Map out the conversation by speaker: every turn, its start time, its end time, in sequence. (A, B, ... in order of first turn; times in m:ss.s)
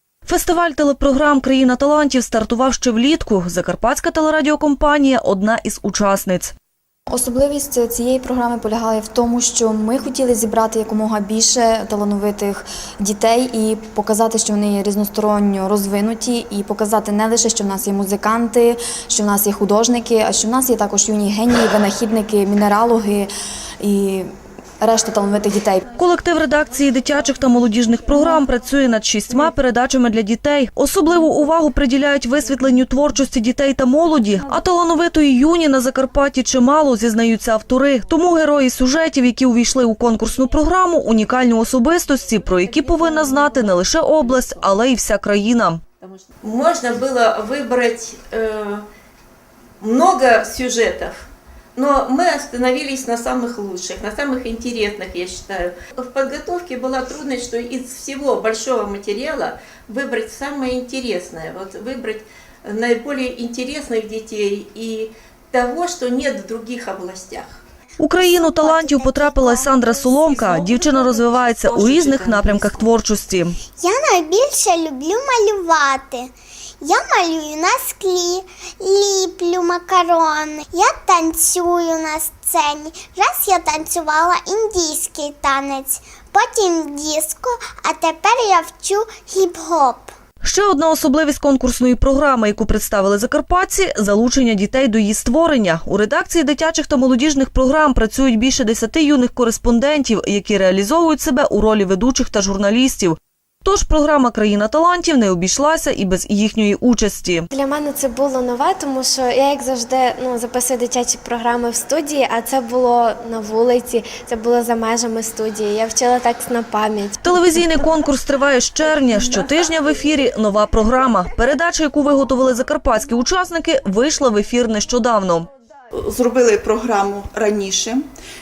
0:00.3-0:06.5 A
0:07.1-0:23.3 B
0:23.8-0:24.3 B
0:24.8-0:25.9 B
0:26.0-0:45.8 A
0:42.6-0:44.8 C
0:46.0-0:48.8 C
0:49.8-1:07.6 C
1:08.0-1:13.6 A
1:10.2-1:12.8 C
1:13.8-1:30.1 D
1:30.4-1:47.5 A
1:47.5-1:57.4 E
1:57.2-2:05.5 A
2:06.0-2:08.0 F